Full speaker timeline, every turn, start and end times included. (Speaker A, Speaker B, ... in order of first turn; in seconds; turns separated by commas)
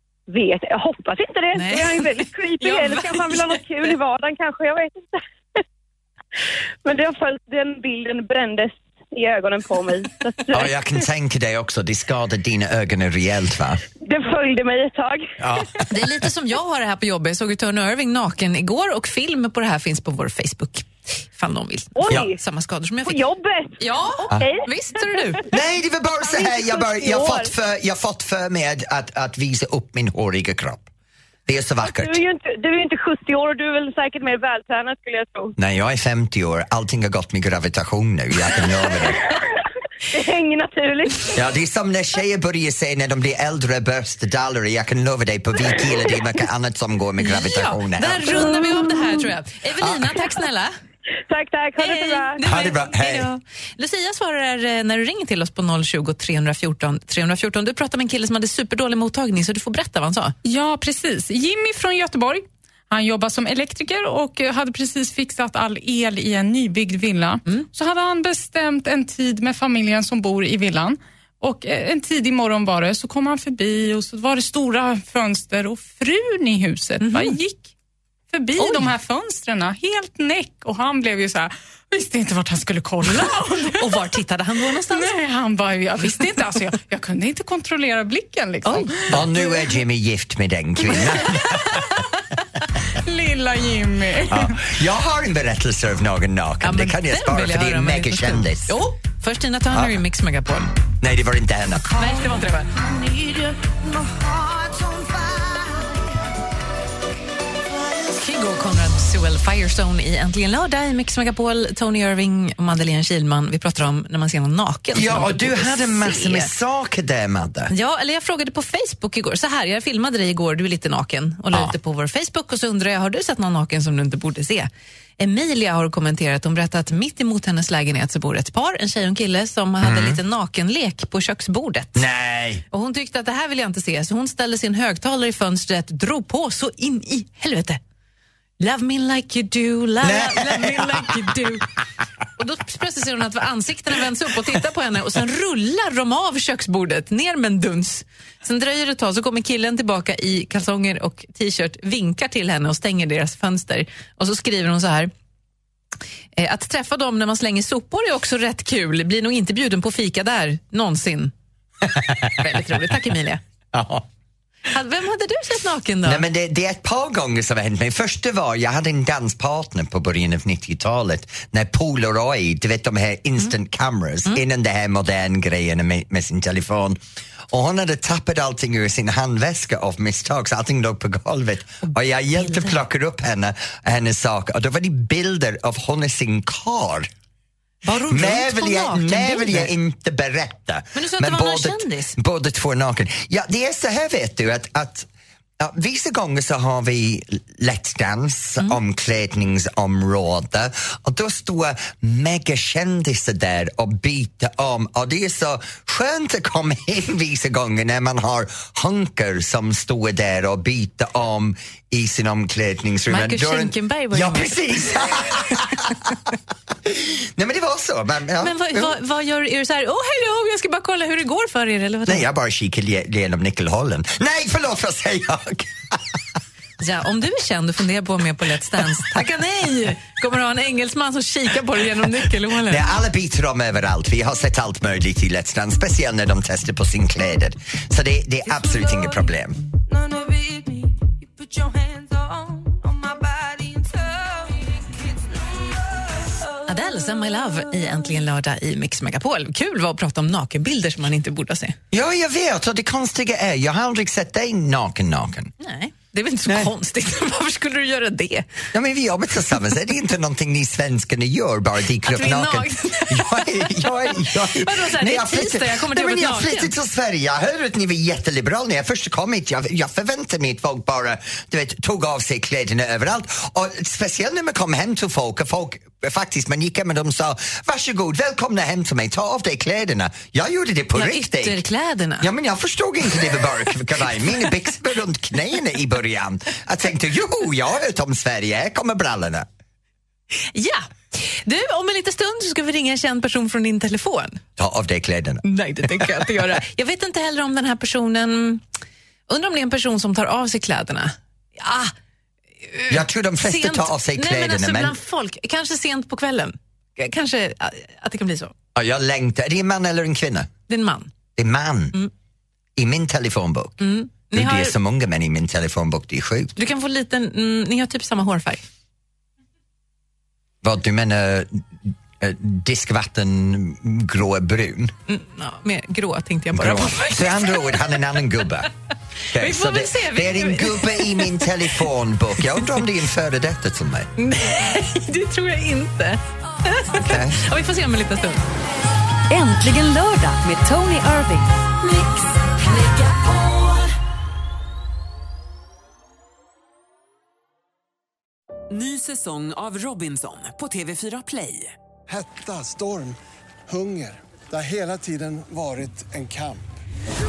Speaker A: 0.3-5.2, Speaker B: 1.5-3.6, Speaker A: 6.8-10.7, Speaker C: 10.5-13.8, Speaker A: 14.0-15.4, Speaker C: 15.4-15.9, Speaker B: 15.9-23.2, Speaker A: 21.9-22.4, Speaker A: 23.0-25.5, Speaker B: 23.8-25.4, Speaker C: 25.5-30.9, Speaker A: 26.2-27.5, Speaker C: 31.5-32.2, Speaker A: 31.8-35.5, Speaker C: 35.6-39.3, Speaker A: 40.1-41.4, Speaker C: 41.3-48.6, Speaker B: 47.2-50.7, Speaker C: 49.8-50.2, Speaker A: 51.3-52.4, Speaker B: 51.8-60.3, Speaker C: 52.4-53.3, Speaker D: 60.4-77.7, Speaker B: 77.0-77.4, Speaker D: 78.3-84.0, Speaker B: 78.6-78.9, Speaker B: 83.7-85.2, Speaker D: 84.9-89.7, Speaker B: 88.6-89.2, Speaker C: 89.1-91.9, Speaker D: 92.9-94.7, Speaker C: 94.3-98.8, Speaker B: 96.6-100.7, Speaker C: 99.7-100.0, Speaker C: 101.0-102.0, Speaker B: 102.0-102.8, Speaker B: 108.1-116.5, Speaker C: 114.9-117.7, Speaker B: 117.7-132.1, Speaker C: 129.8-130.2, Speaker C: 131.9-132.6, Speaker B: 132.7-137.8, Speaker B: 138.6-141.7, Speaker C: 140.0-141.2, Speaker B: 142.4-155.1, Speaker B: 156.3-161.3, Speaker C: 161.8-162.6, Speaker B: 162.4-163.4, Speaker C: 163.7-164.1, Speaker B: 164.7-166.2, Speaker C: 166.0-177.0, Speaker C: 177.5-187.1, Speaker B: 182.3-182.8, Speaker B: 187.8-189.7, Speaker C: 188.1-195.1, Speaker B: 190.9-192.2, Speaker C: 195.6-216.2, Speaker B: 213.1-214.9, Speaker C: 216.8-218.9, Speaker B: 218.4-222.3, Speaker C: 222.1-226.2, Speaker B: 226.8-232.8, Speaker C: 232.7-239.6, Speaker B: 246.6-251.8, Speaker C: 251.9-255.5, Speaker B: 255.6-258.5, Speaker C: 256.5-256.7, Speaker C: 258.7-281.6, Speaker B: 262.0-266.7, Speaker B: 280.9-282.3, Speaker C: 282.2-289.5, Speaker B: 290.5-294.4, Speaker C: 294.6-296.4, Speaker B: 295.4-298.6, Speaker B: 299.3-301.9, Speaker B: 302.7-308.5, Speaker C: 302.9-304.9, Speaker C: 308.7-310.5, Speaker B: 310.7-311.1, Speaker C: 311.4-312.0, Speaker C: 312.8-316.6, Speaker B: 313.8-314.8, Speaker B: 316.6-318.6, Speaker C: 320.6-324.9, Speaker B: 325.1-327.8, Speaker C: 326.5-328.7, Speaker C: 329.3-334.1, Speaker B: 329.3-331.5, Speaker B: 334.2-338.5, Speaker C: 336.9-337.4, Speaker E: 339.3-341.6, Speaker F: 348.7-351.7, Speaker G: 352.1-353.2, Speaker G: 353.7-356.6